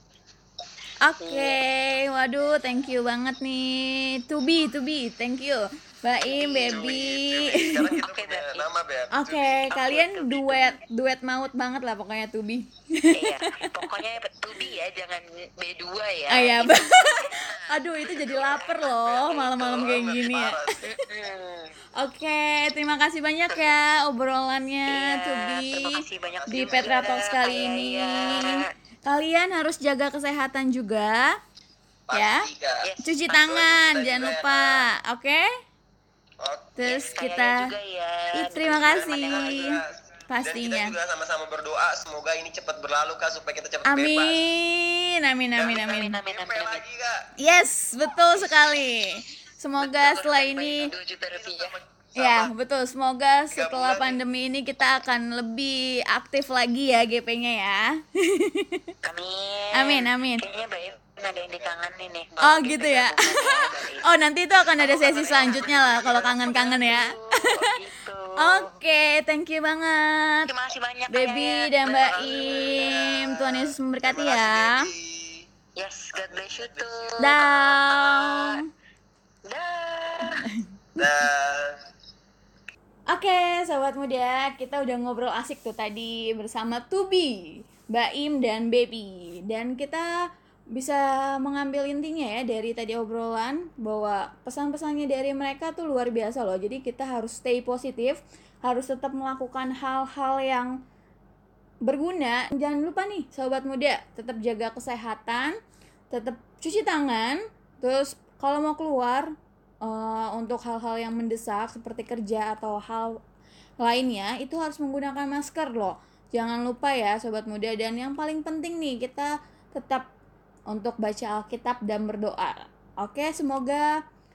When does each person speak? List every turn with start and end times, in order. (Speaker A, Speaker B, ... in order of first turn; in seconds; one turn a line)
Speaker A: 1.0-8.0
Speaker B: 1.2-1.6
Speaker B: 6.2-7.0
Speaker C: 6.7-9.8
Speaker B: 8.0-8.7
Speaker A: 9.1-13.4
Speaker B: 9.7-10.8
Speaker B: 13.1-18.4
Speaker A: 16.3-21.0
Speaker C: 18.1-21.0
Speaker B: 21.1-21.7
Speaker A: 22.0-26.0
Speaker B: 24.9-28.7
Speaker C: 26.1-27.4
Speaker A: 26.5-31.3
Speaker C: 32.1-34.8
Speaker A: 32.1-32.5
Speaker B: 32.8-33.4
Speaker A: 33.0-35.5
Speaker C: 36.4-37.2
Speaker A: 36.8-37.6
Speaker B: 36.9-39.8
Speaker A: 38.3-40.9
Speaker C: 38.7-39.9
Speaker C: 40.4-44.4
Speaker A: 43.9-46.2
Speaker C: 45.6-47.3
Speaker B: 45.6-46.8
Speaker A: 47.4-50.9
Speaker B: 49.8-51.7
Speaker C: 51.3-52.5
Speaker A: 52.2-58.9
Speaker C: 53.5-54.2
Speaker B: 59.0-64.1
Speaker A: 59.8-60.4
Speaker A: 62.4-67.5
Speaker B: 64.8-68.8
Speaker C: 65.6-66.2
Speaker A: 68.4-70.5
Speaker B: 70.5-73.3
Speaker A: 71.1-74.8
Speaker C: 72.0-73.5
Speaker C: 74.0-75.5
Speaker B: 75.8-78.6
Speaker C: 76.2-77.2
Speaker A: 77.2-78.6
Speaker B: 79.5-80.5
Speaker A: 80.4-81.1
Speaker C: 81.0-81.8
Speaker A: 83.1-90.1
Speaker A: 90.7-100.8
Speaker A: 101.8-105.6
Speaker A: 106.1-109.3
Speaker A: 109.8-113.2
Speaker A: 113.8-120.1
Speaker A: 120.7-123.9